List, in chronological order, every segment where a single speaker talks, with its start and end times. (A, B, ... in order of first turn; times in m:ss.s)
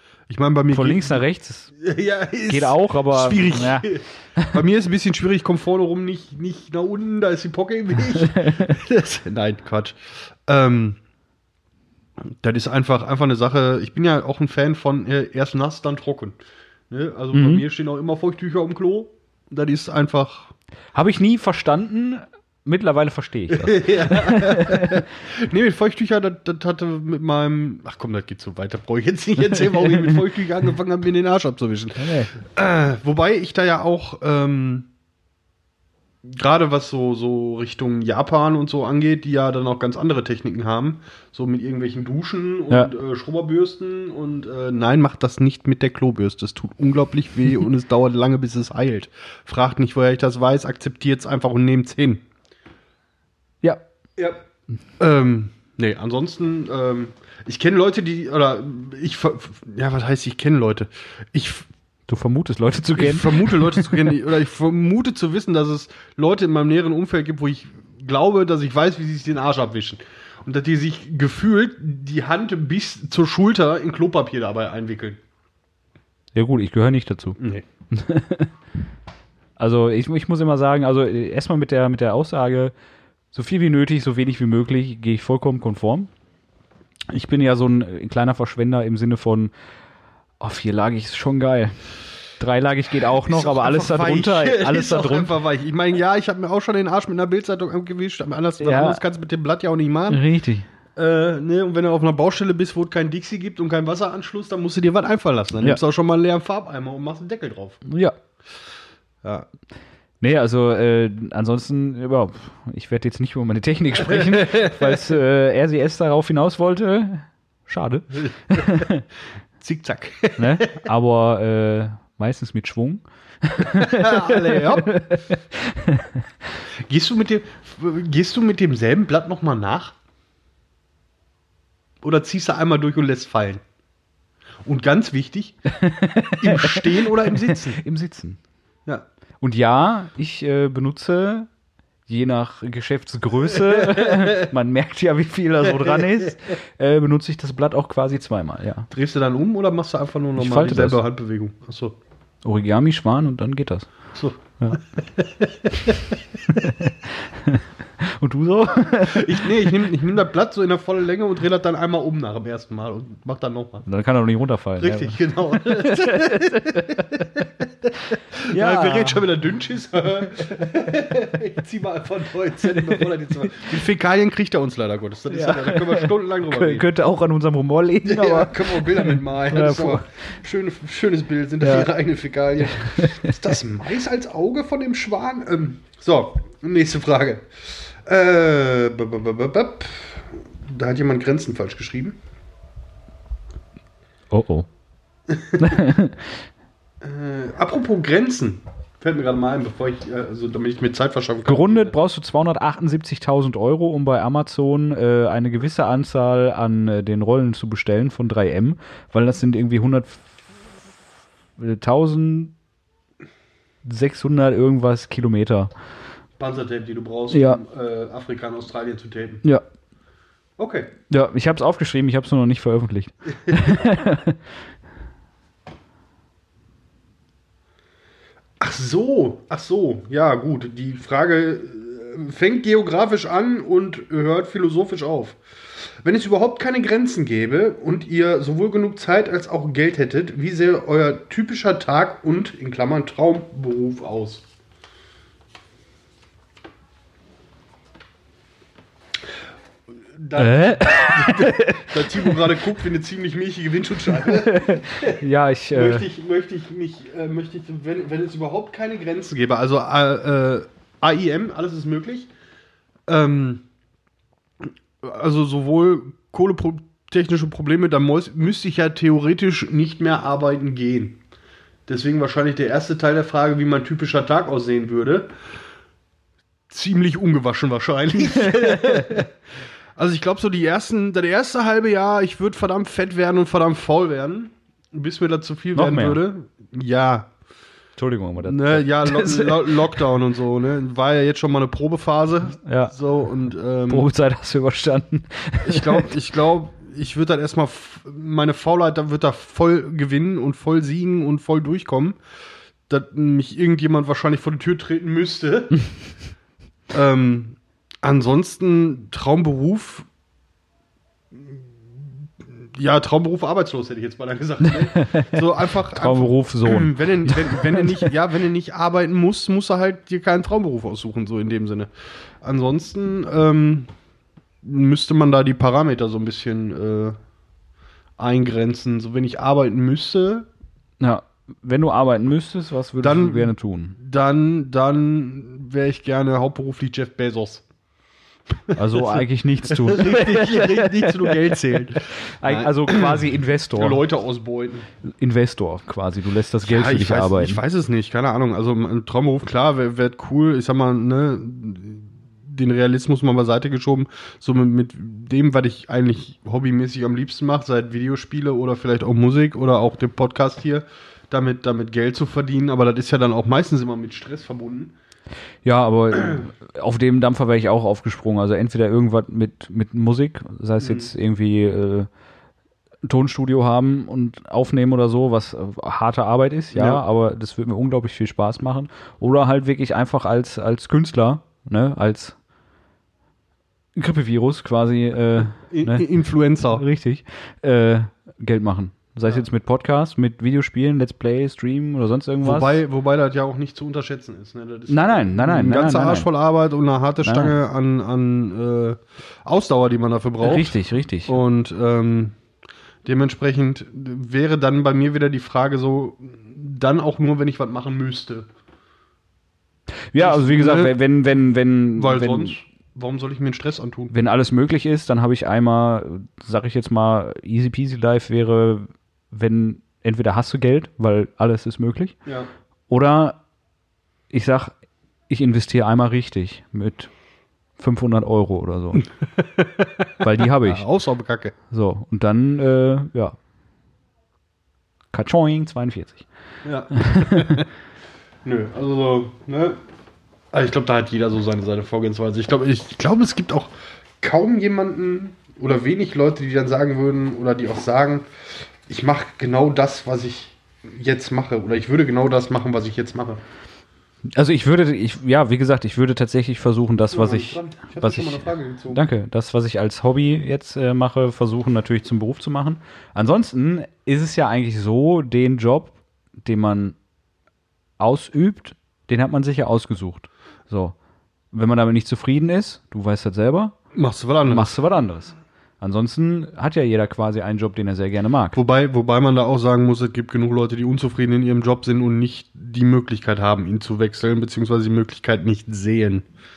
0:00.3-0:01.2 A
0:00.7-0:01.7 B
0:01.7-0:11.0 A
0:02.5-0:04.6 B
0:08.2-0:08.8 B
0:12.3-0:16.4 A
0:16.9-0:20.5 A
0:17.3-0:17.6 B
0:20.9-0:25.0 B
0:23.5-0:34.9 A
0:29.5-0:30.1 B
0:32.0-0:32.3 B
0:36.2-0:52.2 A
0:54.2-0:54.4 A
0:55.0-1:01.7 A
1:02.1-1:04.0 B
1:03.0-1:15.2 A
1:16.4-1:17.4 B
1:17.4-1:17.6 A
1:17.9-1:18.5 B
1:19.6-1:22.7 B
1:23.3-1:26.1 B
1:27.1-1:29.5 B
1:30.4-1:31.8 B
1:32.4-1:35.3 B
1:33.2-1:40.2 A
1:38.6-1:39.0 B
1:40.1-1:40.7 B
1:41.0-1:47.8 A
1:47.8-1:48.2 B
1:50.2-1:59.0 B
1:54.0-1:55.0 A
1:58.5-1:58.9 A
1:59.6-2:00.9 A
2:00.4-2:06.3 B
2:03.6-2:05.0 A
2:06.9-2:10.0 A
2:12.0-2:13.6 A
2:14.7-2:15.6 A
2:15.7-2:18.4 B
2:16.4-2:17.8 A
2:19.4-2:21.5 B
2:22.1-2:28.9 B
2:23.8-2:24.5 A
2:25.7-2:26.3 A
2:28.9-2:32.0 A
2:30.4-2:31.0 B
2:32.4-2:33.9 B
2:34.2-2:36.2 A
2:36.5-2:39.8 B
2:38.9-2:43.9 A
2:43.9-2:47.4 B
2:44.8-2:56.9 A
2:48.4-2:49.2 B
2:55.3-3:00.0 B
2:58.0-3:12.2 A
3:01.6-3:01.9 B
3:02.6-3:03.5 B
3:14.3-3:14.7 B
3:15.3-3:15.8 A
3:15.6-3:16.4 B
3:17.0-3:21.9 A
3:21.4-3:30.2 B
3:31.6-3:32.5 B
3:33.8-3:35.7 B
3:36.4-3:39.4 A
3:37.3-3:37.6 B
3:40.6-3:40.9 A
3:41.1-3:44.4 B
3:43.3-3:43.8 A
3:48.6-4:04.4 A
4:10.2-4:15.2 A
4:10.4-4:12.5 B
4:14.1-4:16.1 B
4:15.7-4:22.3 A
4:23.1-4:23.6 A
4:25.0-4:31.2 A
4:31.9-4:35.3 A
4:36.7-4:39.3 A
4:38.4-4:39.2 B
4:40.0-4:47.3 A
4:45.8-4:46.2 B
4:48.0-4:50.1 B
4:48.4-4:54.1 A
4:52.6-4:52.9 B
4:53.9-4:56.1 B
4:55.6-5:02.2 A
5:02.9-5:05.8 A
5:06.9-5:10.1 A
5:11.3-5:11.7 A
5:12.6-5:21.9 A
5:14.6-5:18.1 B
5:22.4-5:23.9 A
5:24.6-5:27.2 A
5:28.2-5:30.5 A
5:31.0-5:34.0 B
5:33.0-5:37.7 A
5:38.7-5:44.9 A
5:38.8-5:44.0 B
5:45.0-5:47.6 B
5:46.6-6:04.9 A
6:05.6-6:12.1 B
6:10.8-6:11.1 A
6:13.1-6:22.4 B
6:16.7-6:17.0 A
6:24.0-6:26.1 B
6:25.4-6:26.8 A
6:26.7-6:32.8 B
6:32.4-6:42.4 A
6:34.9-6:36.3 B
6:37.2-6:37.6 B
6:40.4-6:41.4 B
6:43.0-6:48.5 A
6:50.1-6:52.6 B
6:50.2-6:51.0 A
6:51.9-6:54.1 A
6:54.1-7:02.2 B
7:02.9-7:03.4 B
7:04.3-7:04.7 B
7:05.3-7:07.1 B
7:07.8-7:09.0 B
7:09.4-7:11.5 A
7:10.2-7:10.8 B
7:11.7-7:13.4 B
7:15.1-7:16.2 B
7:16.6-7:17.7 A
7:17.0-7:17.6 B
7:18.4-7:19.8 A
7:20.5-7:28.3 A
7:28.9-7:33.4 A
7:34.3-7:47.0 B
7:37.1-7:39.0 A
7:48.0-7:51.0 B
7:51.5-7:53.8 B
7:53.9-7:54.8 A
7:54.5-7:58.6 B
7:58.5-8:06.3 A